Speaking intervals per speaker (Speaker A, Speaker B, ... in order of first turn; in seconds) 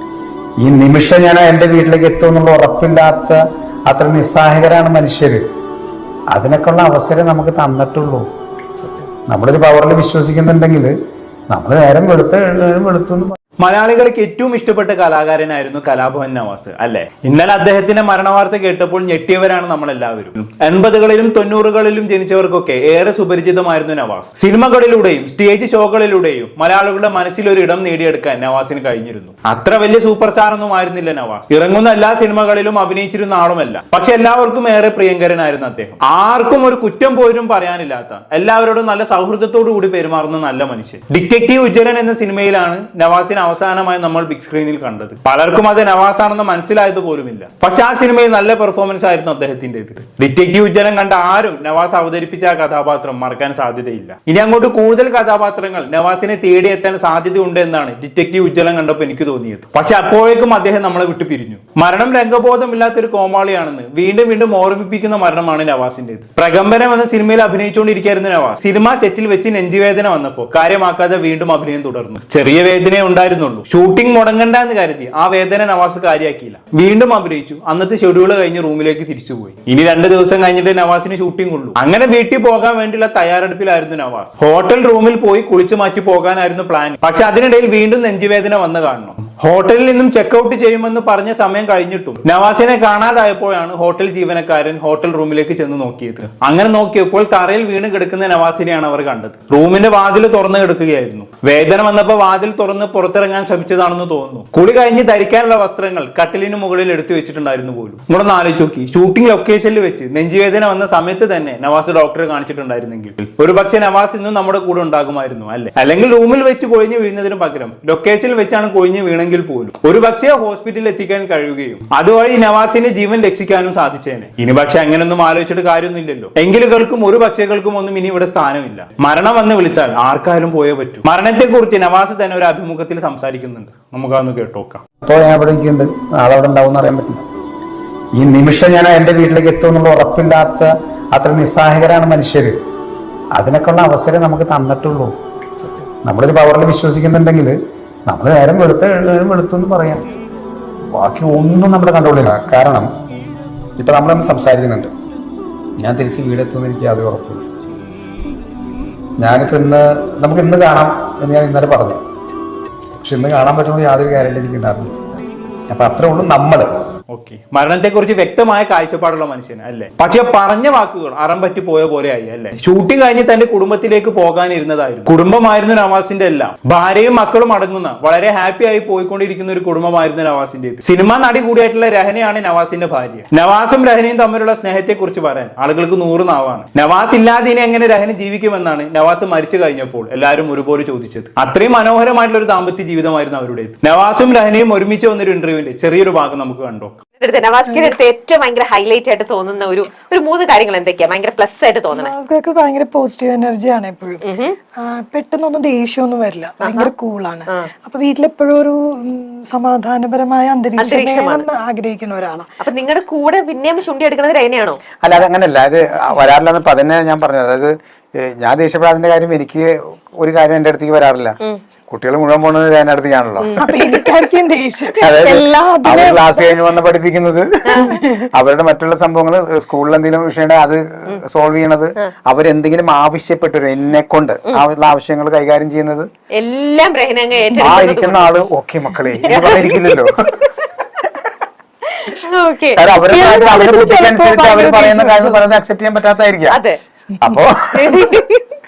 Speaker A: 0.6-5.4, 6.3-8.2, 8.8-10.9, 11.5-13.3, 135.0-137.2, 138.1-142.5, 143.3-150.0, 150.9-152.9, 153.8-154.9, 155.8-157.4, 159.2-162.0, 162.9-166.7, 215.0-221.3, 221.9-223.5, 225.0-236.1, 237.6-240.2, 242.8-246.6, 247.2-248.0
Speaker B: 13.6-134.8, 167.1-197.0
Speaker C: 197.2-202.1, 204.2-204.6, 206.6-206.9, 210.8-211.5, 212.6-214.8, 223.4-224.0, 236.3-238.3, 239.2-240.5, 242.0-242.8, 246.5-246.8, 247.7-248.4
Speaker D: 197.7-197.9, 201.9-204.2, 204.8-212.5, 223.6-226.5, 227.7-228.2, 243.1-245.3